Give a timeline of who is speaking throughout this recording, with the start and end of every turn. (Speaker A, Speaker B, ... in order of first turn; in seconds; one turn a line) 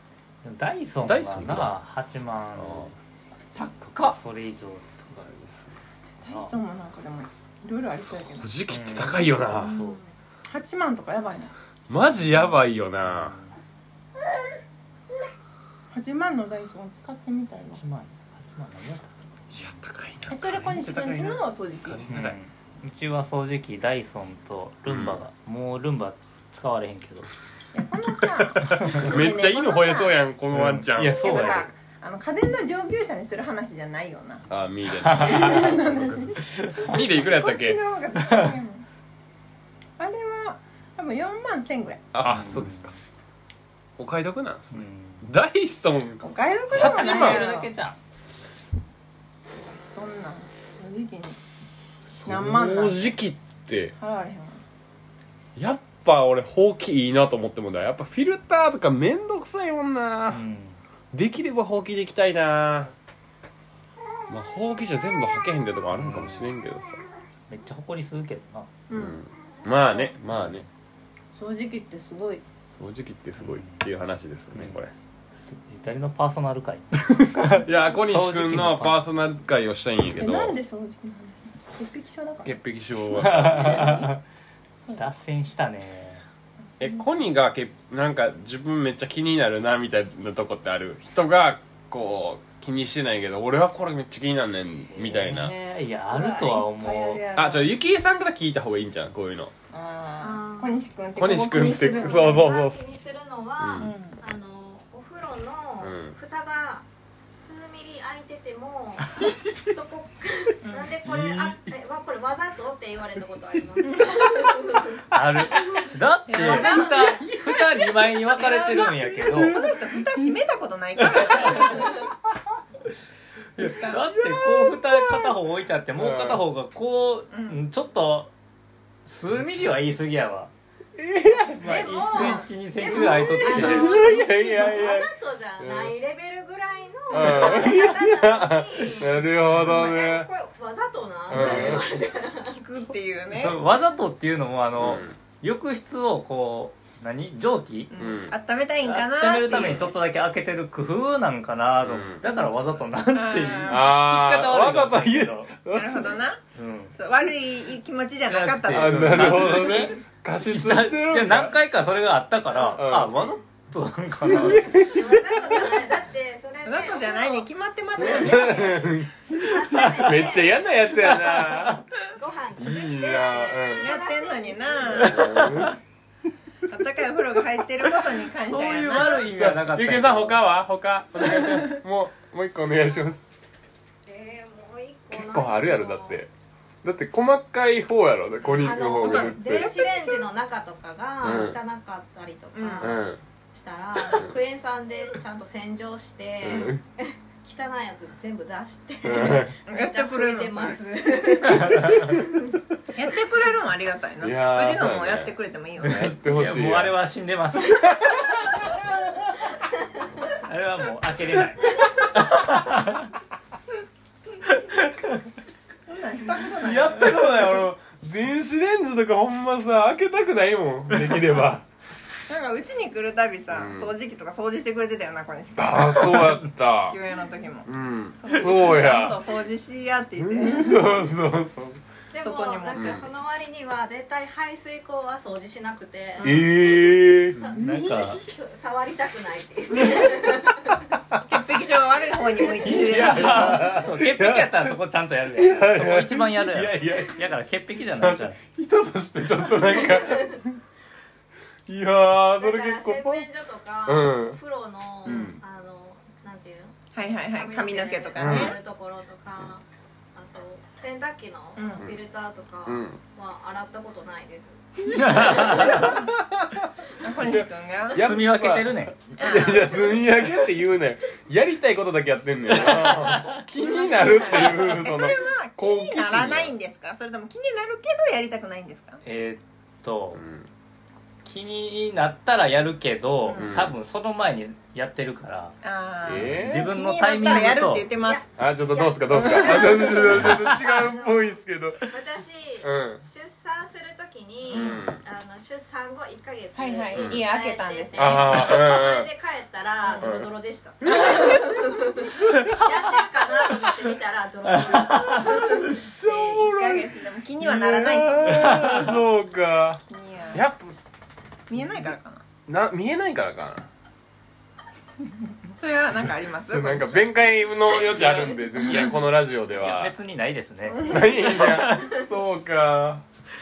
Speaker A: 0.4-2.9
Speaker B: 1.0-1.8
Speaker B: 2.5-2.9
Speaker C: 3.5-4.2
Speaker A: 4.0-5.3
Speaker B: 5.3-5.7
Speaker C: 6.2-8.5
Speaker A: 6.3-6.5
Speaker B: 8.0-9.8
Speaker A: 8.7-10.0
Speaker D: 9.6-10.1
Speaker C: 10.5-11.5
Speaker B: 11.9-13.3
Speaker A: 13.0-13.5
Speaker C: 15.9-17.8
Speaker A: 17.7-19.8
Speaker B: 19.5-22.4
Speaker C: 20.3-22.1
Speaker A: 22.1-27.3
Speaker B: 24.8-25.2
Speaker C: 27.7-30.2
Speaker B: 28.6-31.6
Speaker A: 28.7-29.0
Speaker A: 30.5-31.7
Speaker C: 31.0-34.5
Speaker B: 34.5-37.8
Speaker A: 35.0-35.6
Speaker C: 35.1-38.8
Speaker A: 36.4-36.9
Speaker A: 38.2-38.5
Speaker C: 40.0-42.0
Speaker B: 42.1-42.9
Speaker A: 42.2-43.0
Speaker B: 44.0-47.5
Speaker A: 44.7-45.3
Speaker C: 46.2-47.7
Speaker A: 46.7-48.0
Speaker C: 49.6-51.4
Speaker B: 52.1-53.9
Speaker C: 52.2-53.1
Speaker C: 54.0-54.6
Speaker B: 55.5-60.4
Speaker A: 60.3-60.8
Speaker B: 61.1-62.9
Speaker B: 64.3-67.0
Speaker A: 65.9-66.5
Speaker A: 67.5-68.7
Speaker C: 68.9-69.2
Speaker B: 68.9-70.7
Speaker C: 71.3-72.4
Speaker B: 72.8-74.9
Speaker A: 73.4-73.8
Speaker A: 74.5-74.8
Speaker A: 75.5-79.0
Speaker B: 77.3-80.6
Speaker C: 80.1-82.5
Speaker B: 82.4-84.0
Speaker A: 83.2-84.2
Speaker C: 83.5-84.1
Speaker A: 85.0-86.2
Speaker C: 86.7-87.1
Speaker B: 86.8-95.5
Speaker A: 95.0-97.3
Speaker C: 96.1-97.7
Speaker B: 97.3-99.5
Speaker C: 99.7-102.5
Speaker D: 100.2-100.8
Speaker B: 101.2-102.8
Speaker D: 101.4-115.0
Speaker B: 103.6-103.9
Speaker C: 103.8-104.2
Speaker B: 105.8-106.1
Speaker C: 110.6-110.9
Speaker B: 111.0-111.7
Speaker A: 115.1-119.6
Speaker D: 115.5-117.3
Speaker C: 116.3-117.2
Speaker C: 118.3-122.1
Speaker A: 123.6-128.3
Speaker C: 123.6-124.0
Speaker B: 124.2-125.3
Speaker B: 126.0-126.4
Speaker C: 127.3-127.6
Speaker A: 129.1-130.5
Speaker B: 131.0-131.7
Speaker A: 131.6-134.1
Speaker D: 131.6-142.5
Speaker C: 132.1-132.4
Speaker B: 133.2-135.9
Speaker B: 137.1-140.3
Speaker C: 137.2-137.9
Speaker B: 141.3-141.9
Speaker C: 141.4-143.6
Speaker A: 143.3-147.9
Speaker B: 144.8-145.2
Speaker C: 147.9-149.8
Speaker B: 147.9-148.3
Speaker A: 148.8-155.5
Speaker B: 149.5-149.9
Speaker B: 151.8-152.2
Speaker C: 153.1-153.9
Speaker B: 153.7-156.2
Speaker C: 155.7-156.4
Speaker A: 156.5-156.9
Speaker C: 156.9-159.8
Speaker A: 158.3-164.8
Speaker B: 158.7-161.6
Speaker B: 162.5-163.2
Speaker B: 164.3-165.6
Speaker D: 164.7-167.4
Speaker C: 166.6-169.1
Speaker B: 168.0-171.8
Speaker D: 169.3-171.1
Speaker D: 172.0-175.3
Speaker B: 172.6-174.0
Speaker C: 173.7-175.7
Speaker B: 174.8-175.8
Speaker C: 176.7-179.2
Speaker A: 178.4-180.4
Speaker B: 179.1-183.2
Speaker D: 184.1-186.2
Speaker B: 185.1-186.3
Speaker B: 186.8-189.7
Speaker D: 188.5-193.0
Speaker C: 188.8-190.2
Speaker B: 191.2-191.6
Speaker C: 192.5-193.0
Speaker B: 192.8-193.2
Speaker D: 193.5-202.3
Speaker B: 196.4-196.8
Speaker C: 196.4-196.7
Speaker B: 199.0-199.6
Speaker C: 199.2-200.8
Speaker A: 201.5-202.0
Speaker C: 202.9-206.1
Speaker B: 204.2-207.0
Speaker A: 205.8-207.9
Speaker B: 207.9-208.2
Speaker A: 210.4-213.1
Speaker A: 214.4-215.2
Speaker C: 215.9-217.4
Speaker B: 216.5-221.7
Speaker C: 222.3-227.7
Speaker B: 223.5-223.9
Speaker B: 225.6-227.0
Speaker B: 227.7-229.2
Speaker C: 228.2-231.0
Speaker B: 230.2-231.8
Speaker D: 232.1-236.4
Speaker C: 232.2-233.0
Speaker B: 232.7-233.1
Speaker C: 236.2-236.5
Speaker B: 236.2-237.8
Speaker D: 237.4-240.8
Speaker A: 237.6-238.2
Speaker C: 241.2-243.7
Speaker B: 242.6-244.8
Speaker A: 242.8-248.4
Speaker B: 245.3-247.3
Speaker B: 247.9-250.4
Speaker D: 249.9-250.4
Speaker B: 251.7-253.3
Speaker D: 252.4-265.5
Speaker B: 253.8-254.4
Speaker B: 255.0-255.4
Speaker C: 255.1-255.3
Speaker C: 256.9-258.6
Speaker B: 258.1-258.6
Speaker C: 261.6-261.9
Speaker B: 262.6-263.0
Speaker A: 264.9-266.0
Speaker B: 265.0-266.7
Speaker C: 265.6-266.1
Speaker C: 267.0-268.1
Speaker B: 267.2-276.5
Speaker A: 267.9-269.0
Speaker C: 269.2-270.0
Speaker A: 273.0-273.4
Speaker C: 273.6-279.0
Speaker A: 279.0-280.2
Speaker B: 280.1-280.5
Speaker A: 281.2-285.6
Speaker C: 283.2-283.6
Speaker B: 283.3-283.7
Speaker C: 285.6-288.3
Speaker B: 286.0-286.6
Speaker A: 286.1-287.9
Speaker D: 287.9-291.4
Speaker B: 288.4-291.9
Speaker C: 289.1-290.9
Speaker D: 291.9-305.8
Speaker B: 292.6-293.0
Speaker B: 294.5-295.0
Speaker C: 296.5-298.7
Speaker B: 296.9-297.3
Speaker B: 297.9-299.1
Speaker B: 300.0-300.3
Speaker B: 300.8-301.3
Speaker C: 300.9-301.5
Speaker A: 304.5-305.4
Speaker C: 305.5-308.9
Speaker B: 305.6-310.8
Speaker A: 308.3-308.9
Speaker C: 309.8-310.4
Speaker C: 311.5-312.2
Speaker B: 312.5-313.7
Speaker C: 315.1-317.1
Speaker B: 315.9-319.9
Speaker A: 319.5-322.0
Speaker C: 320.7-321.5
Speaker B: 320.8-323.0